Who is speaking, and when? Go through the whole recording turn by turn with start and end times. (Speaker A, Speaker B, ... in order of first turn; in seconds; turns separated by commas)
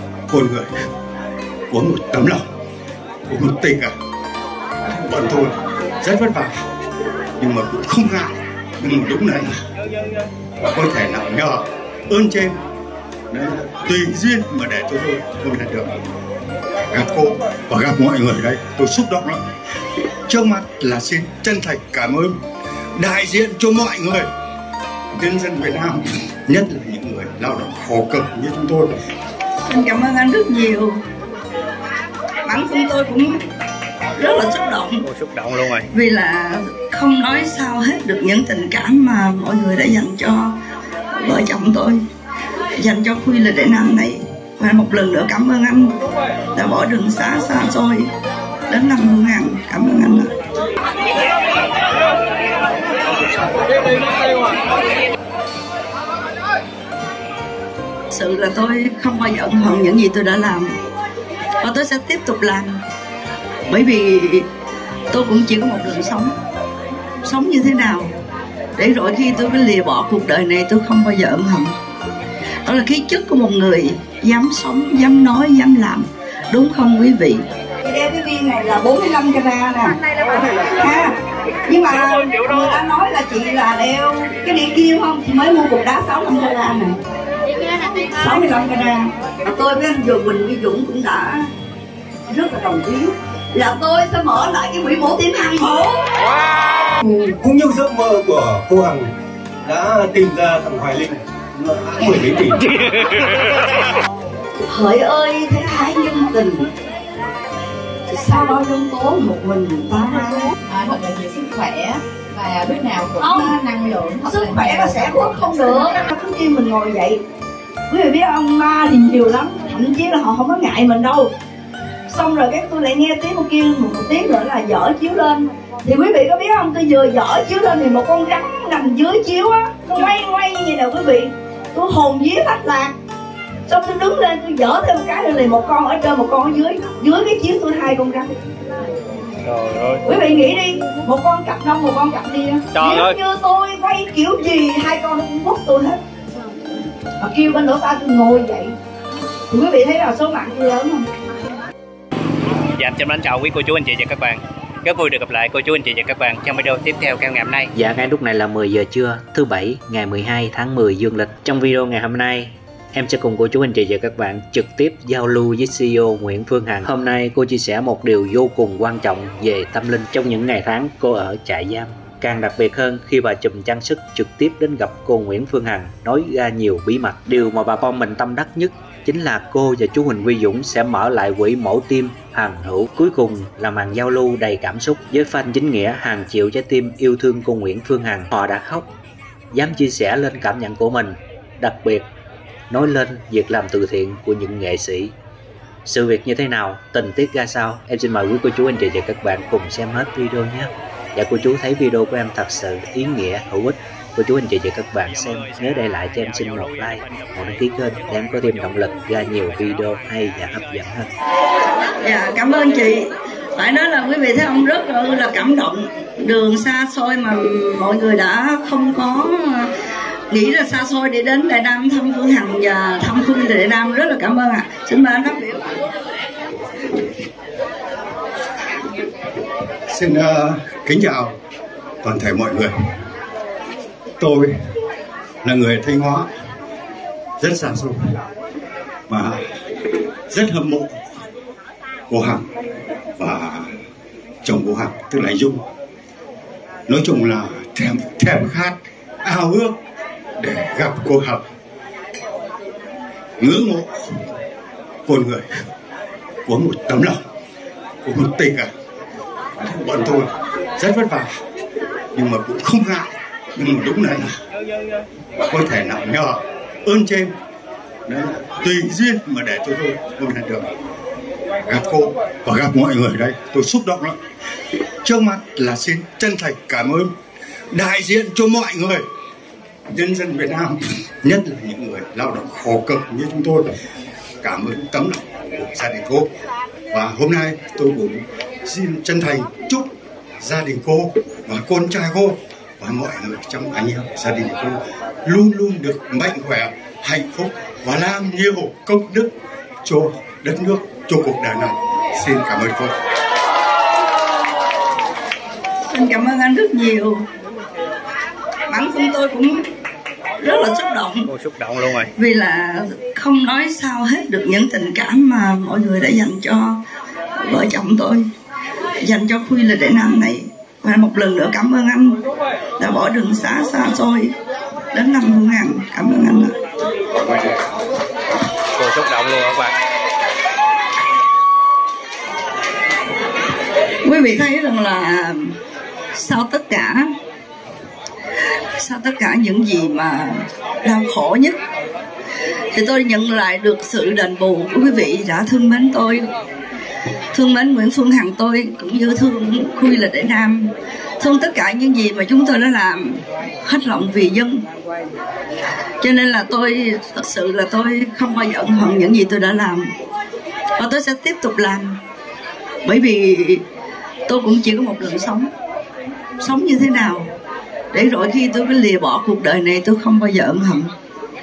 Speaker A: 0.3-0.7, Speaker A: 1.7-2.4, Speaker A: 3.3-3.9, Speaker A: 4.8-6.6, Speaker A: 7.4-9.6, Speaker A: 10.7-12.6, Speaker A: 13.3-15.9, Speaker A: 16.9-19.4, Speaker A: 20.3-22.3, Speaker A: 23.0-24.3, Speaker A: 25.2-29.0, Speaker B: 29.6-31.0, Speaker B: 32.4-33.4, Speaker B: 34.1-35.0, Speaker C: 35.0-35.9, Speaker B: 35.9-40.6, Speaker B: 41.1-42.0, Speaker B: 42.8-46.0, Speaker B: 46.5-48.1, Speaker B: 48.7-50.3, Speaker B: 58.1-60.8, Speaker B: 61.6-62.8, Speaker B: 63.7-64.5, Speaker B: 65.1-66.3, Speaker B: 67.2-68.1, Speaker B: 68.8-71.8, Speaker B: 72.6-87.0, Speaker B: 88.1-91.5, Speaker B: 92.3-96.1, Speaker D: 97.0-99.1, Speaker D: 99.6-102.6, Speaker B: 104.7-106.7, Speaker B: 108.1-110.5, Speaker E: 110.7-115.6, Speaker B: 113.2-113.6, Speaker B: 114.2-117.2, Speaker B: 117.9-121.3, Speaker B: 122.1-132.9, Speaker B: 133.7-138.3, Speaker C: 139.5-140.0, Speaker B: 140.0-146.0, Speaker C: 142.7-143.2, Speaker B: 147.2-148.7, Speaker B: 149.5-151.1, Speaker C: 152.7-157.7, Speaker F: 157.7-188.9, Speaker F: 189.5-192.1, Speaker F: 192.7-195.1, Speaker F: 195.8-211.1, Speaker B: 212.0-219.7, Speaker B: 220.3-225.7, Speaker A: 229.9-231.3, Speaker A: 232.0-232.7, Speaker A: 234.2-234.5, Speaker A: 235.4-236.3, Speaker A: 237.4-238.2, Speaker A: 239.1-239.6, Speaker A: 240.3-241.2, Speaker A: 242.1-242.5, Speaker A: 243.2-243.7, Speaker A: 244.4-245.7, Speaker A: 246.9-249.8, Speaker A: 250.4-251.4, Speaker A: 253.4-254.0, Speaker A: 255.1-255.5, Speaker A: 256.4-257.2, Speaker A: 258.0-258.7, Speaker A: 259.6-261.3, Speaker A: 262.1-264.4, Speaker A: 265.5-267.3, Speaker A: 268.1-270.7, Speaker A: 271.6-274.2, Speaker A: 275.0-277.1, Speaker A: 277.7-279.1, Speaker A: 279.9-283.7, Speaker A: 284.4-286.3, Speaker A: 286.9-302.9, Speaker B: 305.9-307.2, Speaker B: 308.7-309.6, Speaker B: 310.4-311.3, Speaker C: 311.3-312.1, Speaker B: 312.1-316.8, Speaker B: 317.4-318.3, Speaker B: 319.0-322.2, Speaker B: 322.8-324.3, Speaker B: 324.9-326.6, Speaker C: 328.8-329.7, Speaker B: 334.0-335.6, Speaker B: 336.1-337.1, Speaker B: 338.8-341.6, Speaker B: 342.7-346.3, Speaker B: 347.3-354.6, Speaker B: 356.0-359.9, Speaker B: 360.8-362.0, Speaker B: 362.8-363.6, Speaker B: 364.3-365.5, Speaker B: 366.4-367.3, Speaker B: 367.9-370.9